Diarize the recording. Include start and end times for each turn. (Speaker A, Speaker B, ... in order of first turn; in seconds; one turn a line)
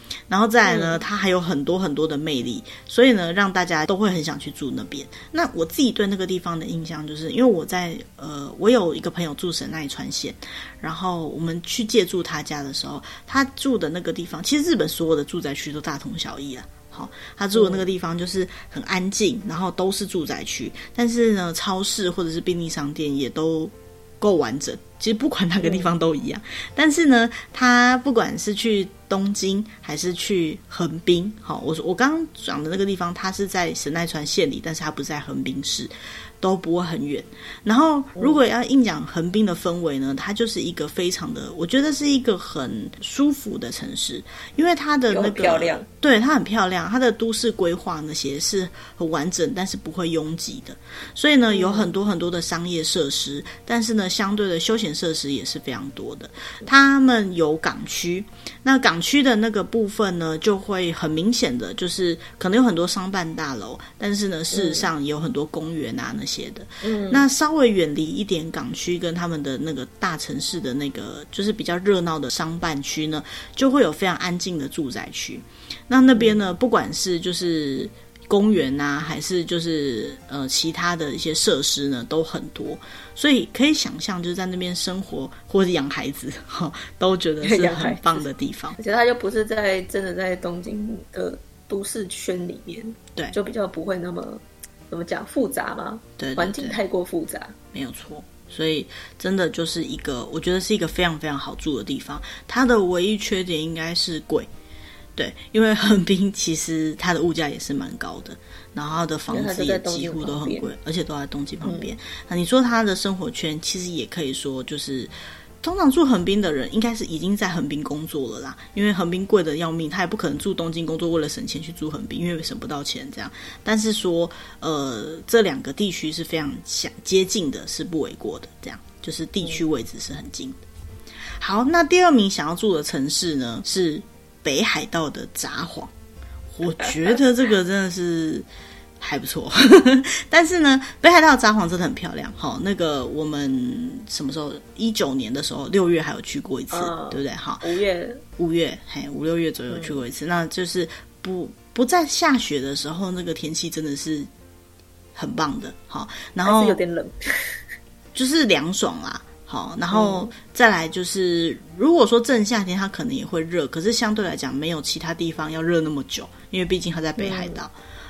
Speaker A: 0.3-88.8
Speaker B: 0.6-1.0
Speaker B: 17.5-17.8
Speaker B: 25.6-25.9
Speaker B: 45.1-45.9
Speaker B: 51.5-51.9
Speaker B: 64.5-64.9
Speaker B: 66.8-67.2
Speaker B: 87.4-97.5
Speaker A: 96.2-96.8
Speaker A: 97.7-104.5
Speaker A: 105.2-130.6
Speaker B: 109.3-110.7
Speaker B: 111.6-111.9
Speaker A: 131.4-135.9
Speaker A: 136.5-138.4
Speaker A: 139.0-147.7
Speaker B: 146.7-148.2
Speaker A: 148.4-154.3
Speaker B: 149.7-149.9
Speaker A: 155.2-156.8
Speaker B: 156.4-157.6
Speaker A: 158.1-167.7
Speaker B: 159.9-160.3
Speaker B: 167.2-167.6